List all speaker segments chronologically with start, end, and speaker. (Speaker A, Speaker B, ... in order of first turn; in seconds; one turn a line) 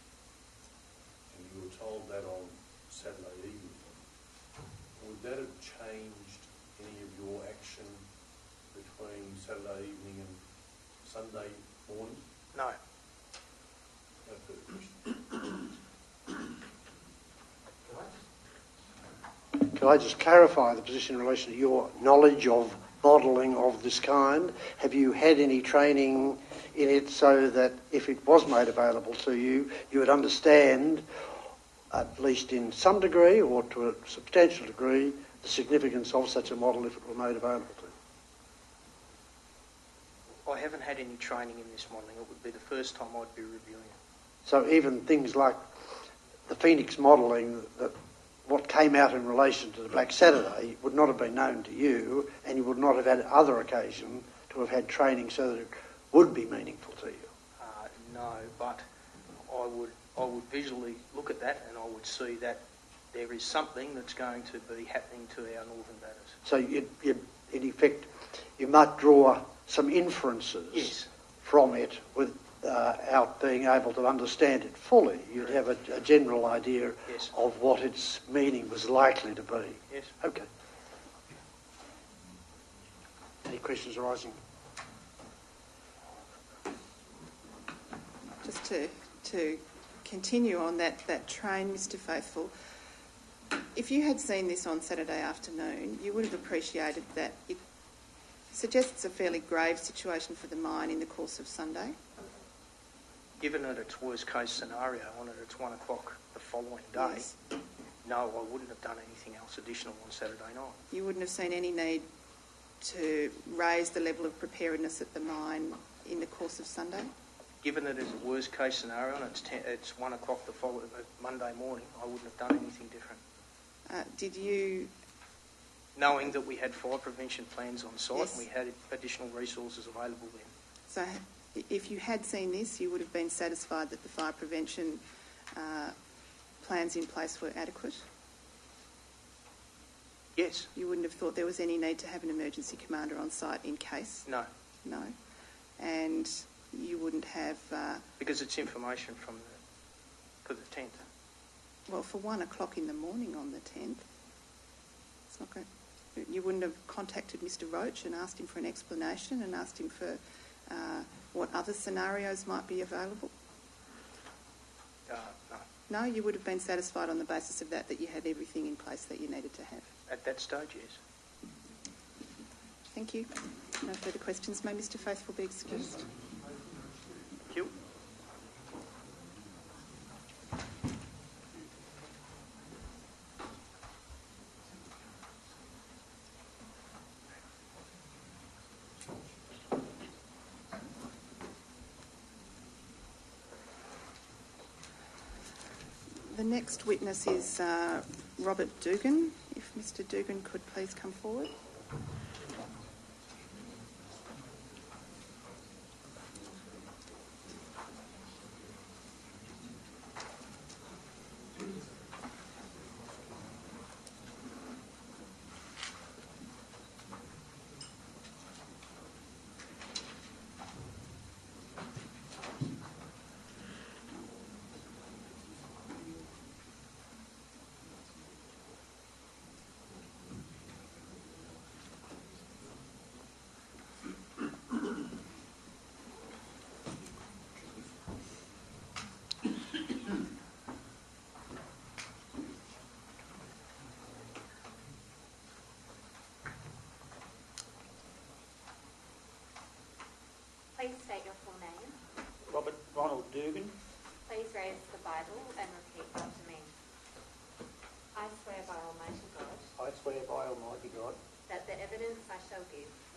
Speaker A: 1.3-3.9
Speaker A: 5.0-8.0
Speaker A: 8.7-10.4
Speaker A: 11.0-12.3
Speaker A: 14.3-15.1
Speaker B: 19.6-31.1
Speaker B: 31.9-37.9
Speaker C: 40.5-44.0
Speaker B: 44.5-45.6
Speaker B: 46.5-47.9
Speaker B: 48.5-57.3
Speaker C: 57.6-58.8
Speaker C: 59.5-66.4
Speaker B: 66.5-80.5
Speaker C: 70.7-71.1
Speaker B: 83.4-84.4
Speaker D: 88.4-92.5
Speaker D: 93.8-97.6
Speaker D: 98.5-102.0
Speaker C: 103.4-107.3
Speaker D: 107.0-107.3
Speaker C: 108.0-110.8
Speaker D: 110.9-112.1
Speaker D: 112.8-117.1
Speaker C: 117.6-123.2
Speaker D: 123.9-124.9
Speaker C: 126.0-130.5
Speaker D: 128.1-128.4
Speaker D: 130.9-135.9
Speaker D: 136.6-138.0
Speaker C: 140.4-140.7
Speaker D: 140.8-144.3
Speaker D: 144.8-145.1
Speaker D: 145.8-148.1
Speaker C: 148.2-149.6
Speaker C: 150.4-151.1
Speaker D: 151.9-154.1
Speaker D: 155.3-163.3
Speaker C: 165.1-165.7
Speaker D: 165.9-169.9
Speaker C: 170.1-171.0
Speaker D: 172.9-176.1
Speaker D: 196.2-201.5
Speaker E: 250.8-252.0
Speaker F: 252.5-253.8
Speaker E: 254.3-256.7
Speaker E: 258.1-259.7
Speaker F: 259.8-261.2
Speaker E: 261.5-262.9